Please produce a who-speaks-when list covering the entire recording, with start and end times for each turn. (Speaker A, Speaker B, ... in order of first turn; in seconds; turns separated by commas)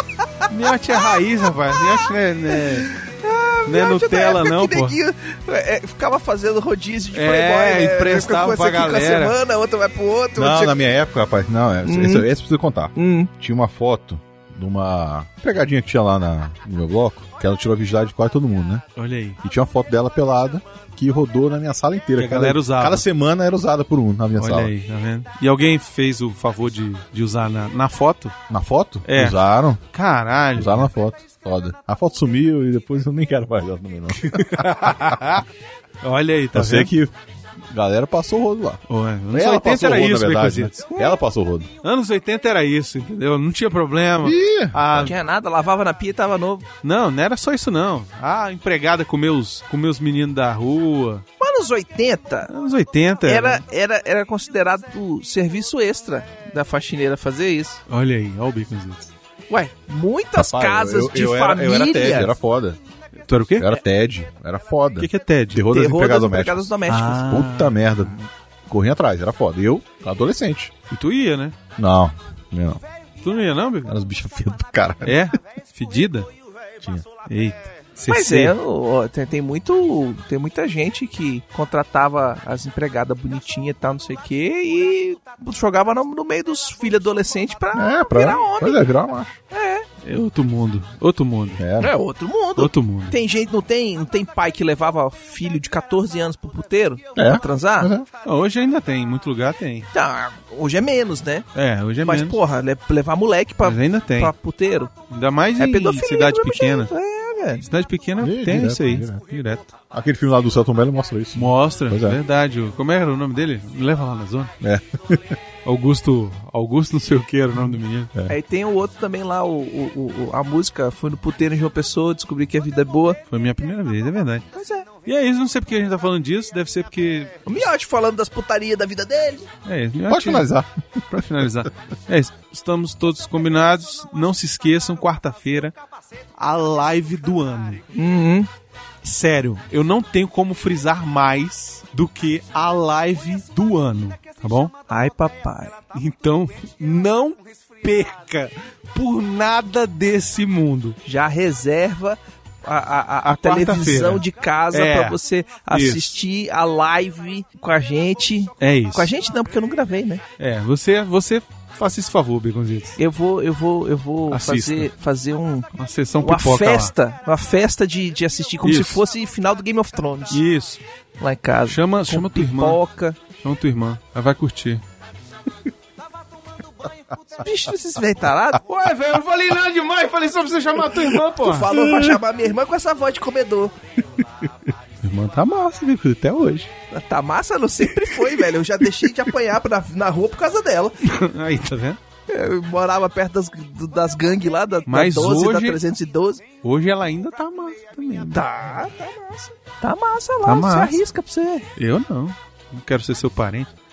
Speaker A: 0.5-2.9, Speaker B: 2.7-10.8, Speaker A: 3.7-5.0, Speaker A: 7.1-9.4, Speaker C: 10.3-18.8, Speaker B: 11.8-12.3, Speaker B: 12.9-13.3, Speaker A: 19.0-19.4, Speaker C: 19.4-24.7, Speaker A: 22.2-23.1, Speaker A: 24.4-28.4, Speaker C: 28.5-29.8, Speaker A: 29.1-29.4, Speaker A: 29.9-30.9, Speaker C: 30.6-34.9, Speaker A: 34.2-35.5, Speaker A: 36.0-36.9, Speaker C: 36.5-38.8, Speaker A: 38.9-40.9, Speaker C: 39.3-41.7, Speaker A: 41.8-45.1, Speaker C: 44.2-45.1, Speaker B: 44.9-46.7, Speaker A: 46.8-51.2, Speaker B: 51.4-52.5, Speaker A: 52.5-53.6, Speaker B: 53.3-57.8, Speaker A: 57.9-59.1, Speaker B: 59.5-62.3, Speaker C: 60.4-62.8, Speaker A: 63.3-63.7, Speaker C: 63.6-68.2, Speaker A: 65.0-65.6, Speaker B: 65.7-67.3, Speaker A: 66.9-67.8, Speaker C: 68.7-70.7, Speaker A: 70.9-71.6, Speaker C: 71.8-72.8, Speaker A: 73.2-73.9, Speaker C: 73.8-75.2, Speaker A: 75.0-76.3, Speaker A: 77.3-78.5, Speaker B: 78.1-88.9, Speaker C: 87.7-89.4, Speaker B: 89.5-89.9, Speaker A: 90.0-91.6, Speaker C: 91.6-92.0, Speaker B: 91.8-97.9, Speaker A: 92.6-93.2, Speaker C: 97.2-98.1, Speaker A: 98.2-99.9, Speaker B: 99.9-101.5, Speaker A: 101.5-102.4, Speaker B: 102.0-104.9, Speaker A: 103.6-104.3, Speaker A: 105.1-106.9, Speaker B: 105.6-107.7, Speaker A: 107.6-109.7, Speaker C: 108.2-109.3, Speaker C: 109.9-112.2, Speaker A: 111.3-114.5, Speaker C: 114.6-115.4, Speaker A: 115.7-118.1, Speaker B: 118.3-123.2, Speaker A: 123.3-124.5, Speaker B: 124.5-124.9, Speaker A: 125.0-127.7, Speaker B: 127.5-129.5, Speaker A: 129.7-130.5, Speaker C: 130.1-131.0, Speaker A: 131.1-135.8, Speaker A: 136.4-137.8, Speaker B: 137.9-138.5, Speaker A: 139.0-144.8, Speaker B: 144.9-145.8, Speaker A: 145.9-151.0, Speaker B: 151.0-160.2, Speaker A: 153.2-155.2, Speaker A: 155.7-156.2, Speaker A: 158.6-159.1, Speaker A: 160.4-163.0, Speaker B: 163.0-165.7, Speaker A: 164.3-164.9, Speaker A: 165.8-166.9, Speaker B: 166.2-170.4, Speaker A: 168.6-169.0, Speaker A: 170.3-170.8, Speaker B: 171.2-173.2, Speaker A: 171.7-172.8, Speaker A: 173.4-174.8, Speaker B: 177.4-178.6, Speaker A: 178.6-182.2, Speaker B: 181.3-183.7, Speaker A: 185.0-186.7, Speaker B: 186.9-191.0, Speaker A: 191.0-192.0, Speaker B: 192.3-196.4, Speaker A: 194.9-195.8, Speaker A: 196.6-198.7, Speaker B: 198.3-201.7, Speaker A: 200.4-201.0, Speaker A: 201.8-203.7